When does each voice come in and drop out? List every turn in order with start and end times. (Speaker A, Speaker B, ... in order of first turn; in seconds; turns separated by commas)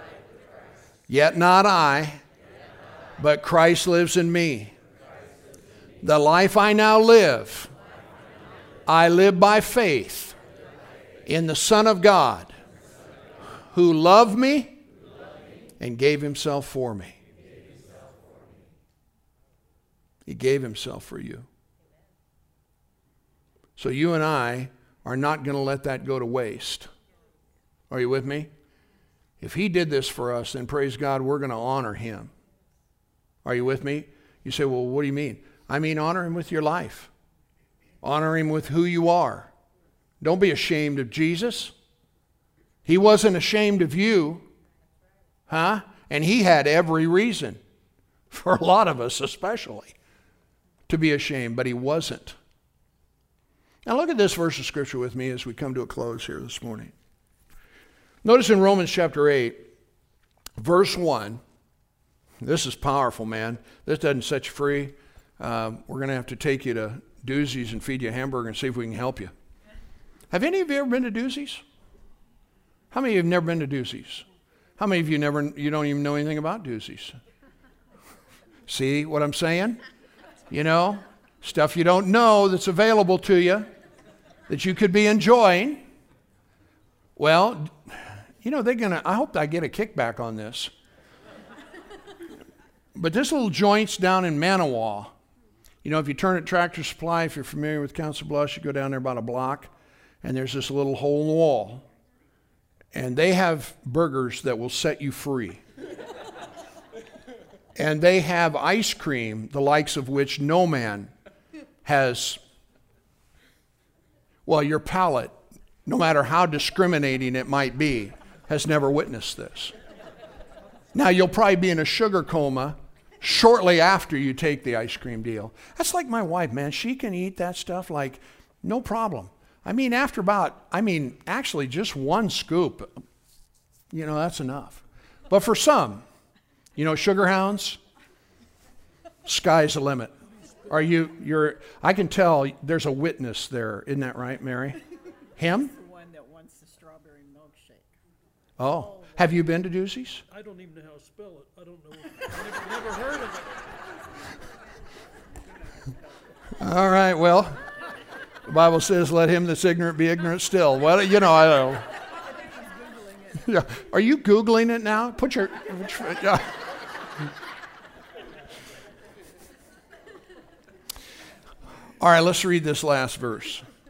Speaker A: 1.1-2.2, Speaker A: 3.2-4.7, Speaker A: 6.0-7.7, Speaker A: 8.9-10.4, Speaker A: 11.3-12.6, Speaker A: 13.7-14.8, Speaker A: 15.8-17.2, Speaker A: 20.3-21.5, Speaker A: 23.8-26.9, Speaker A: 27.9-28.5, Speaker A: 29.4-32.3, Speaker A: 33.5-37.1, Speaker A: 38.0-39.5, Speaker A: 40.2-41.7, Speaker A: 42.9-44.5, Speaker A: 45.5-47.6, Speaker A: 48.3-49.9, Speaker A: 50.9-52.4, Speaker A: 53.9-56.9, Speaker A: 58.2-59.6, Speaker A: 60.6-61.4, Speaker A: 62.4-69.3, Speaker A: 70.3-71.6, Speaker A: 72.9-74.2, Speaker A: 74.8-77.2, Speaker A: 78.7-79.8, Speaker A: 80.5-83.7, Speaker A: 84.5-85.8, Speaker A: 87.2-90.7, Speaker A: 93.0-95.1, Speaker A: 95.8-99.7, Speaker A: 100.2-101.9, Speaker A: 102.9-105.6, Speaker A: 107.8-111.1, Speaker A: 111.8-112.4, Speaker A: 114.5-115.3, Speaker A: 115.9-119.7, Speaker A: 120.9-132.9, Speaker A: 133.9-136.0, Speaker A: 136.8-137.8, Speaker A: 139.2-140.1, Speaker A: 140.7-144.8, Speaker A: 145.4-145.7, Speaker B: 145.7-147.9, Speaker A: 148.6-150.2, Speaker C: 150.3-153.6, Speaker A: 156.6-157.6, Speaker A: 158.5-161.9, Speaker B: 162.5-163.3, Speaker A: 163.4-166.5, Speaker A: 172.0-173.6